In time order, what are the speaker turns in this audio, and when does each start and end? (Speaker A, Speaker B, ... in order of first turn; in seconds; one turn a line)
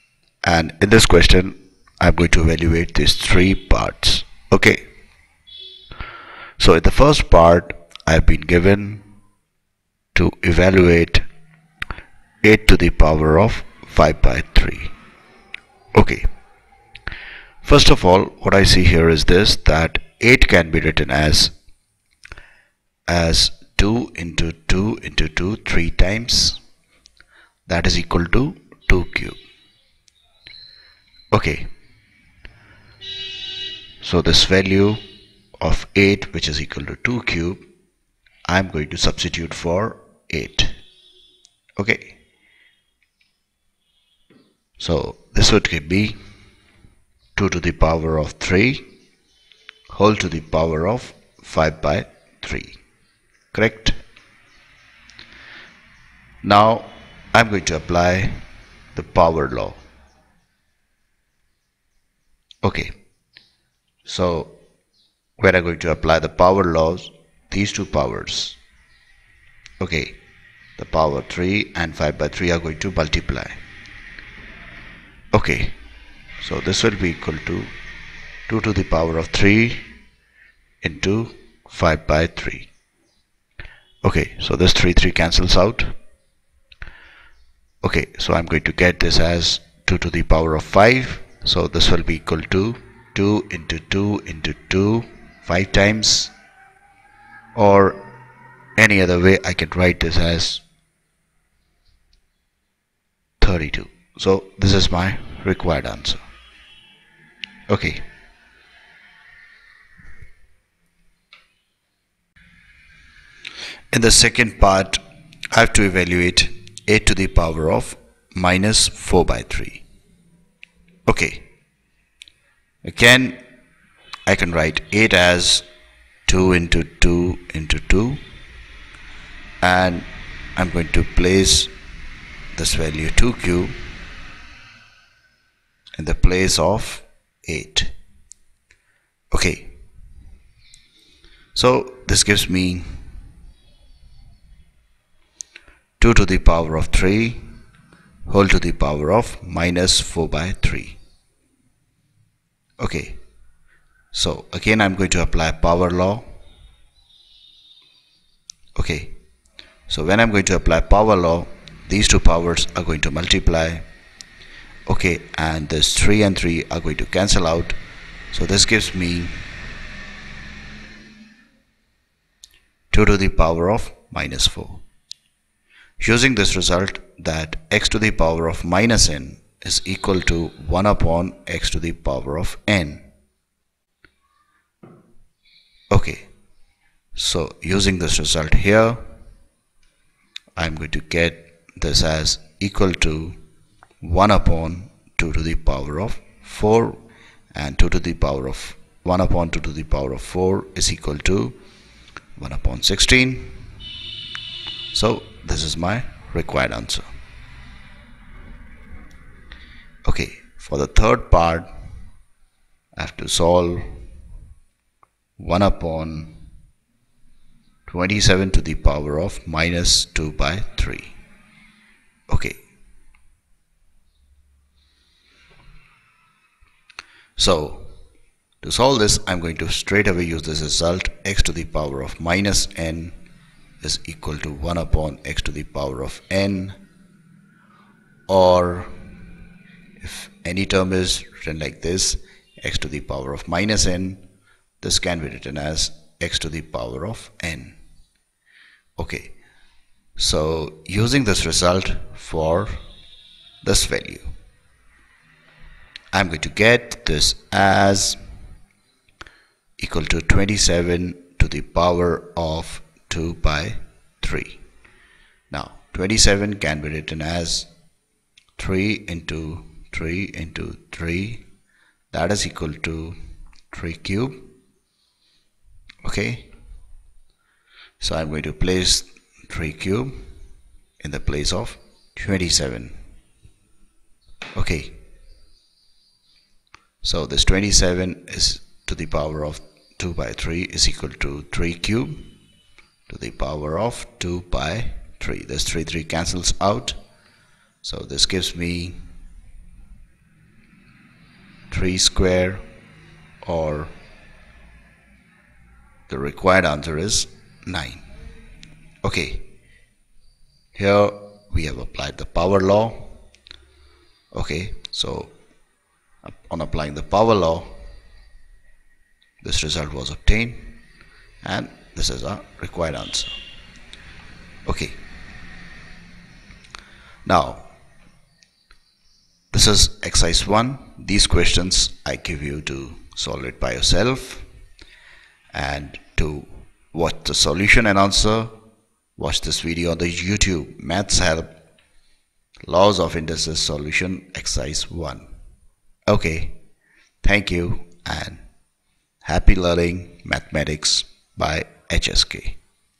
Speaker A: 0.4-4.8
Speaker A: 6.6-9.1
Speaker A: 10.1-11.2
Speaker A: 12.4-14.9
Speaker A: 15.9-16.3
Speaker A: 17.6-21.5
Speaker A: 23.1-26.6
Speaker A: 27.7-29.4
Speaker A: 31.3-31.7
Speaker A: 34.0-35.0
Speaker A: 35.6-37.6
Speaker A: 38.5-40.8
Speaker A: 41.8-42.2
Speaker A: 44.8-46.2
Speaker A: 47.3-48.9
Speaker A: 49.9-52.8
Speaker A: 53.5-54.0
Speaker A: 56.4-58.4
Speaker A: 58.9-59.8
Speaker A: 62.6-62.9
Speaker A: 64.0-64.5
Speaker A: 65.4-68.6
Speaker A: 69.8-70.2
Speaker A: 70.8-73.6
Speaker A: 75.3-75.8
Speaker A: 76.4-77.7
Speaker A: 78.5-79.9
Speaker A: 80.8-82.7
Speaker A: 84.0-86.0
Speaker A: 87.8-96.3
Speaker A: 97.5-98.0
Speaker A: 98.8-100.6
Speaker A: 103.4-106.2
Speaker A: 107.7-108.0
Speaker A: 113.9-119.8
Speaker A: 121.1-121.5
Speaker A: 122.8-123.4
Speaker A: 124.3-125.7
Speaker A: 126.2-128.2
Speaker A: 129.6-131.7
Speaker A: 132.5-133.8
Speaker A: 136.0-137.9
Speaker A: 139.3-139.8
Speaker A: 141.5-143.1
Speaker A: 146.0-147.5
Speaker A: 148.2-151.0
Speaker A: 152.8-153.2
Speaker A: 154.1-156.3
Speaker A: 158.8-159.2
Speaker A: 159.9-163.8
Speaker A: 164.9-167.8
Speaker A: 168.3-169.4
Speaker A: 172.9-174.8
Speaker A: 176.0-183.1
Speaker A: 185.9-186.3
Speaker A: 187.1-189.0
Speaker A: 190.6-193.4
Speaker A: 194.0-197.0
Speaker A: 197.5-201.6
Speaker A: 202.4-203.7
Speaker A: 204.9-207.1
Speaker A: 210.0-211.7
Speaker A: 212.9-214.0
Speaker A: 215.4-216.4
Speaker A: 217.9-221.2
Speaker A: 222.3-222.6
Speaker A: 227.4-227.9
Speaker A: 228.6-233.2
Speaker A: 233.8-236.8
Speaker A: 238.3-238.9
Speaker A: 240.0-244.2
Speaker A: 244.8-247.8
Speaker A: 249.0-249.4
Speaker A: 250.2-252.8
Speaker A: 253.6-254.3
Speaker A: 256.1-258.2
Speaker A: 259.8-264.6
Speaker A: 265.5-267.7
Speaker A: 268.6-271.4
Speaker A: 272.1-273.2
Speaker A: 273.7-274.5
Speaker A: 276.0-276.5
Speaker A: 278.0-280.3
Speaker A: 281.0-283.0
Speaker A: 284.5-285.0
Speaker A: 287.0-292.3
Speaker A: 293.1-297.0
Speaker A: 297.8-299.1
Speaker A: 301.7-302.6
Speaker A: 303.4-303.9
Speaker A: 306.1-308.0
Speaker A: 309.0-309.5
Speaker A: 310.7-313.2
Speaker A: 314.3-315.3
Speaker A: 316.2-317.8
Speaker A: 319.4-320.8
Speaker A: 321.4-323.3
Speaker A: 324.6-325.0
Speaker A: 327.2-327.6
Speaker A: 329.5-334.4
Speaker A: 335.5-338.6
Speaker A: 339.1-341.6
Speaker A: 342.6-345.3
Speaker A: 346.1-346.6
Speaker A: 347.2-348.4
Speaker A: 349.2-352.6